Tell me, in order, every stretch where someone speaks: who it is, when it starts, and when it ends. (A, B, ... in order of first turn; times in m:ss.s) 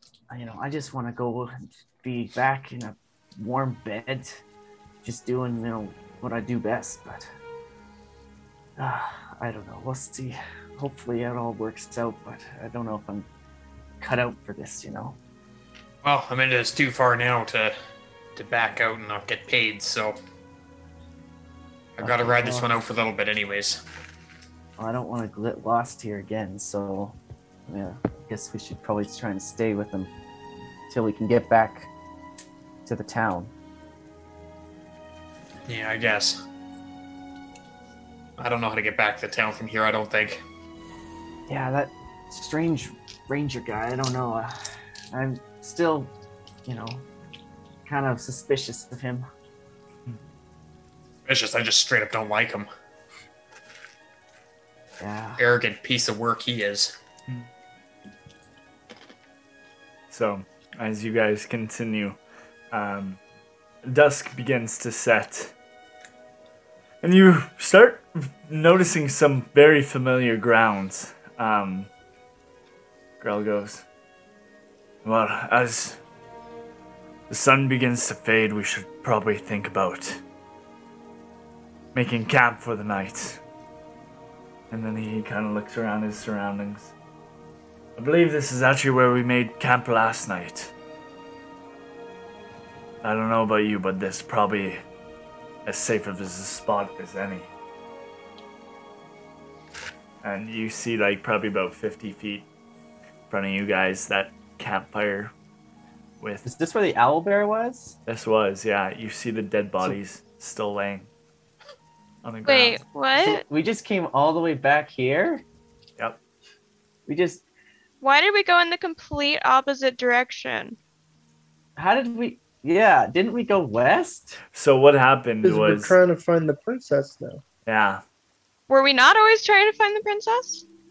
0:00.3-0:04.4 A
0:05.0-0:07.3 A
0:08.8-0:13.3 A
0:14.0-0:15.2 A
0:16.0-0:17.8 B
0:18.4-0:20.2 B
0:22.0-0:23.8 B
0:22.0-0:22.7 A
0:24.8-0:30.1 A
0:30.9-0:31.9 A
0:32.9-0:33.5 A
0:35.7-0:36.4 B
0:38.4-0:40.4 B
0:41.5-0:44.6 A
0:45.1-0:46.1 A
0:46.7-0:47.1 A
0:47.9-0:49.3 A
0:51.3-0:52.7 B
0:55.0-0:55.4 A
0:55.4-0:57.0 B
1:00.1-1:02.2 C
1:02.7-1:03.2 C
1:03.8-1:05.5 C
1:07.0-1:11.9 C
1:13.2-1:13.8 C
1:15.0-1:16.0 C
1:17.3-1:20.2 C
1:21.9-1:23.4 C
1:24.7-1:26.9 C
1:28.0-1:30.7 C
1:33.0-1:34.8 C
1:35.7-1:37.5 C
1:40.2-1:42.5 C
1:43.3-1:45.3 C
1:46.4-1:48.0 A
1:48.1-1:51.1 C
1:52.2-1:52.8 C
1:52.5-1:53.4 D
1:53.2-1:55.4 A
1:57.1-1:57.4 A
1:58.0-2:00.8 D
2:01.8-2:04.4 A
2:04.5-2:06.0 C
2:05.4-2:07.4 E
2:07.7-2:08.0 C
2:08.7-2:10.6 D